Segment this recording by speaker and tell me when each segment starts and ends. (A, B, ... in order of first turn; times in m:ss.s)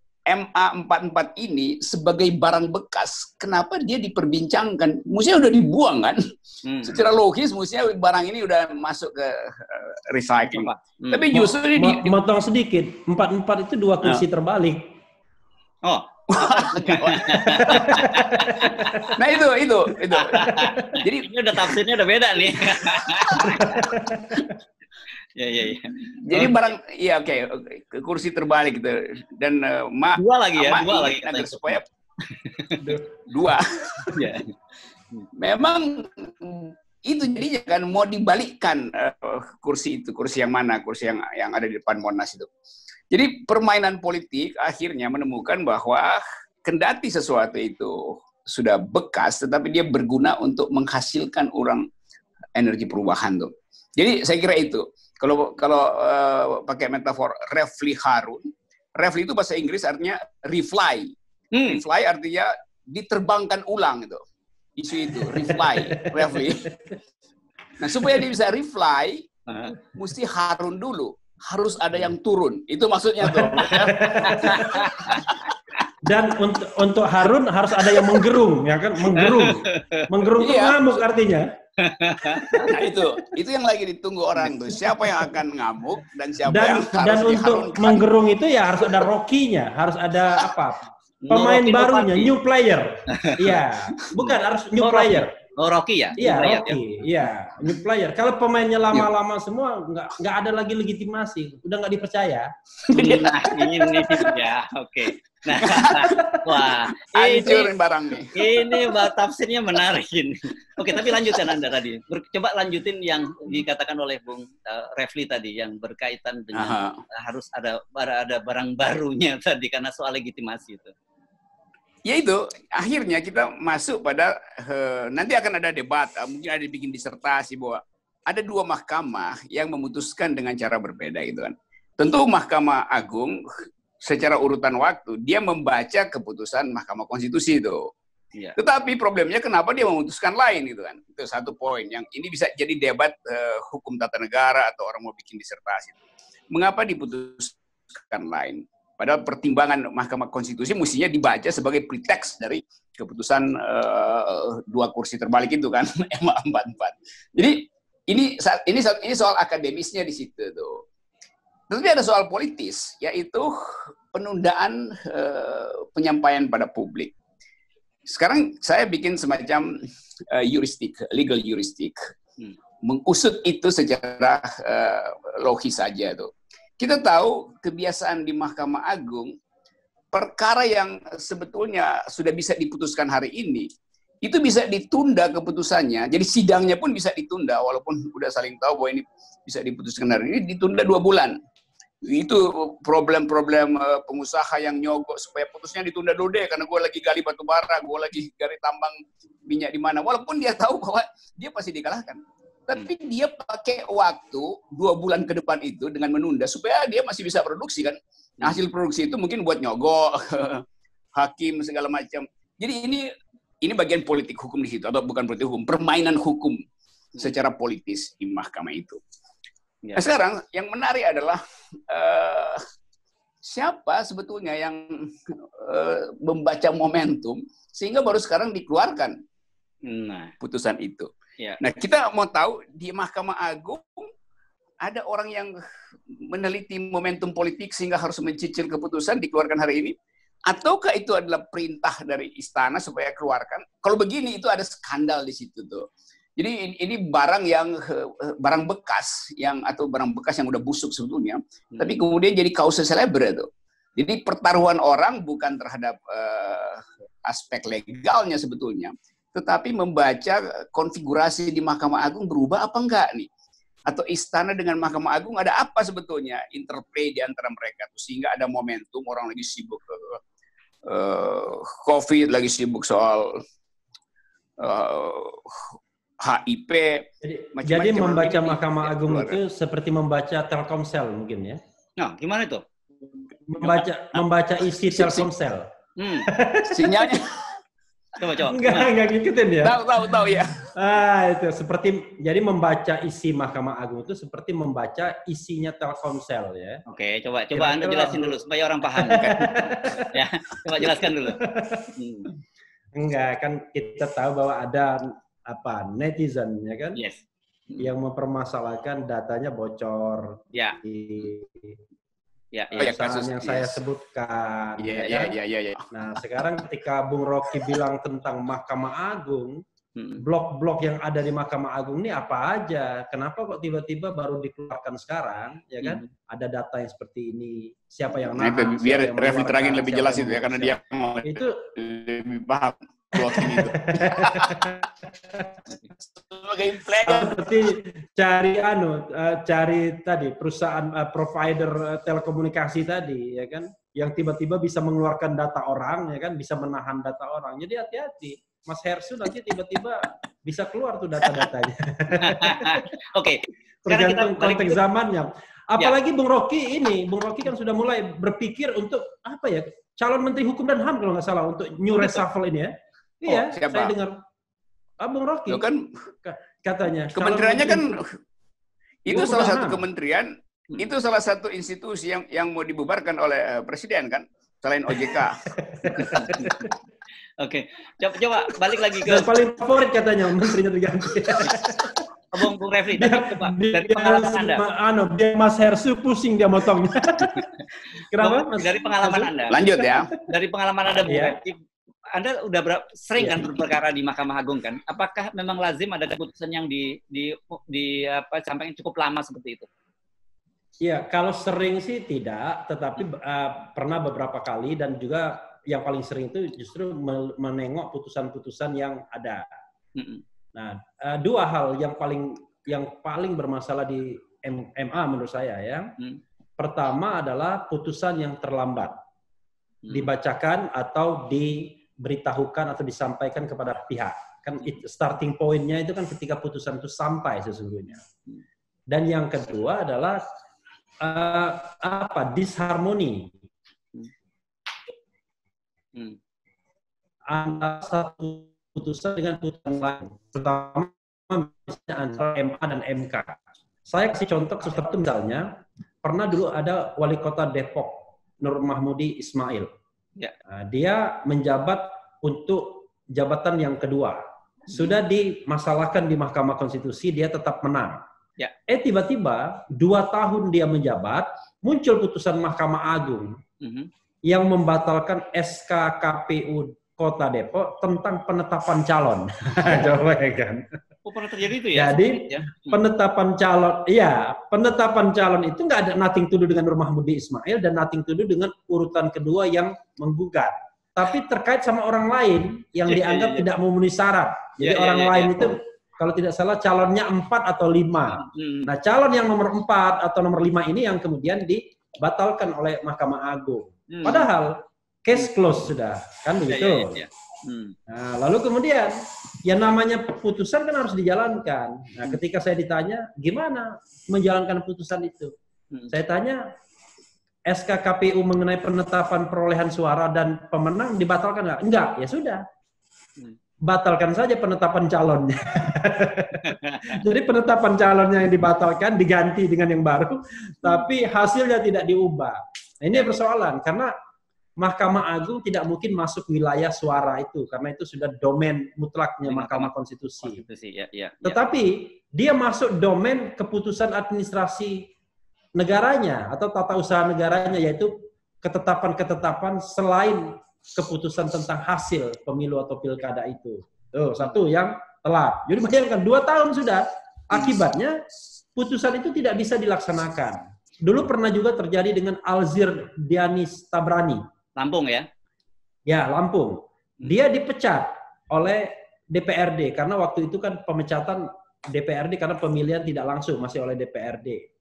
0:00.3-0:06.2 A
0:06.6-0:07.0 B
0:06.8-0:12.2 A
0:10.5-0:11.2 B
0:11.3-0:14.9 C
0:15.8-0:19.2 B
0:16.3-0:18.0 A
0:17.3-0:19.2 C
0:19.1-0:21.7 A
0:20.1-0:23.9 B
0:20.5-0:21.0 C
0:22.8-0:23.7 A
0:23.6-0:24.5 C
0:25.4-0:26.5 B
0:26.1-0:31.8 A
0:30.2-0:33.0 B
0:32.8-0:33.1 C
0:33.3-0:34.1 A
0:34.1-0:34.5 B
0:35.4-0:42.5 A
0:43.1-0:51.9 A
0:52.6-1:01.1 A
1:01.5-1:01.8 B
1:01.7-1:04.2 A
1:04.8-1:06.7 A
1:05.1-1:07.0 C
1:07.8-1:09.3 A
1:09.5-1:09.8 B
1:09.9-1:15.4 A
1:13.2-1:14.9 C
1:14.2-1:15.5 B
1:16.0-1:21.5 C
1:17.8-1:18.2 A
1:19.1-1:20.1 B
1:20.4-1:21.0 A
1:21.8-1:22.8 B
1:22.4-1:23.0 C
1:22.7-1:28.0 A
1:26.4-1:35.3 C
1:31.2-1:32.3 B
1:33.1-1:33.4 B
1:34.2-1:36.8 B
1:36.2-1:42.5 C
1:42.9-1:44.4 A
1:42.9-1:47.6 B
1:45.6-1:48.7 A
1:46.1-1:46.4 C
1:47.2-1:47.7 C
1:48.3-2:00.9 B
1:50.9-1:51.4 A
1:56.5-1:57.0 A
2:02.0-2:13.4 A
2:14.0-2:17.9 A
2:18.6-2:26.0 A
2:26.5-2:40.8 A
2:41.7-2:47.1 A
2:48.1-2:49.7 A
2:50.3-2:52.0 A
2:52.8-2:59.3 A
3:00.1-3:03.7 A
3:04.2-3:11.4 A
3:12.0-3:30.6 A
3:31.2-3:33.0 A
3:33.6-3:36.6 A
3:37.2-3:39.0 A
3:40.0-3:42.6 A
3:43.4-3:49.2 A
3:49.8-3:50.3 B
3:50.4-3:54.1 A
3:54.8-3:55.5 A
3:56.2-4:00.0 A
4:00.5-4:05.8 A
4:06.4-4:23.3 A
4:11.7-4:12.0 B
4:23.9-4:30.2 A
4:30.8-4:33.4 A
4:34.6-4:39.4 A
4:37.2-4:41.6 C
4:42.0-4:42.6 B
4:43.5-4:45.7 C
4:43.6-4:44.2 A
4:44.8-4:45.2 A
4:46.0-4:46.3 B
4:46.2-4:47.2 C
4:46.7-4:47.4 A
4:48.2-4:48.9 B
4:48.5-4:50.1 C
4:49.6-4:50.7 A
4:50.7-4:56.8 C
4:56.9-5:01.4 B
4:57.5-4:58.4 C
4:59.0-5:01.9 C
4:59.1-4:59.6 A
5:02.0-5:02.3 B
5:02.9-5:07.0 C
5:06.9-5:07.9 B
5:07.8-5:11.8 C
5:10.5-5:10.8 B
5:12.5-5:12.9 B
5:12.7-5:15.3 C
5:12.8-5:13.8 A
5:14.8-5:15.8 A
5:15.9-5:19.6 C
5:20.0-5:20.2 B
5:20.2-5:31.6 C
5:25.8-5:26.1 B
5:28.3-5:34.7 A
5:33.2-5:35.5 C
5:36.2-5:37.4 A
5:37.0-5:52.8 C
5:52.1-5:54.8 B
5:53.8-6:04.2 C
6:03.2-6:03.9 A
6:05.0-6:05.7 C
6:05.5-6:05.9 A
6:06.2-6:07.9 C
6:07.1-6:08.1 A
6:09.0-6:15.4 A
6:09.1-6:09.8 C
6:15.4-6:16.7 C
6:15.9-6:16.6 B
6:17.4-6:19.3 B
6:19.0-6:22.0 C
6:22.3-6:24.6 B
6:23.0-6:27.4 C
6:28.1-6:29.3 C
6:28.2-6:29.6 B
6:29.5-6:30.1 A
6:29.8-6:30.2 C
6:30.2-6:31.6 B
6:31.1-6:31.4 C
6:32.1-6:39.7 B
6:33.2-6:33.5 C
6:40.8-6:49.5 C
6:50.0-6:50.2 B
6:50.5-6:55.9 C
6:56.6-6:59.0 C
6:59.8-7:00.1 B
6:59.9-7:08.0 C
7:08.9-7:10.2 C
7:11.0-7:13.3 C
7:17.3-7:29.7 C
7:30.5-7:38.0 C
7:38.7-7:43.4 C
7:43.6-7:43.9 B
7:44.3-7:50.6 C
7:51.0-7:52.8 B
7:51.7-8:17.0 C
8:02.9-8:03.4 B
8:04.6-8:05.4 B
8:08.1-8:08.7 B
8:13.9-8:14.3 B
8:16.5-8:17.7 B
8:17.9-8:25.3 C
8:25.9-8:26.4 C
8:27.5-8:32.4 C
8:33.6-8:43.9 C
8:36.4-8:37.0 B
8:44.6-8:50.4 C
8:49.3-8:49.7 B
8:50.2-8:51.4 B
8:51.2-8:54.9 C
8:55.6-9:08.0 C
9:08.5-9:14.2 C
9:14.6-9:15.1 B
9:15.9-9:24.5 C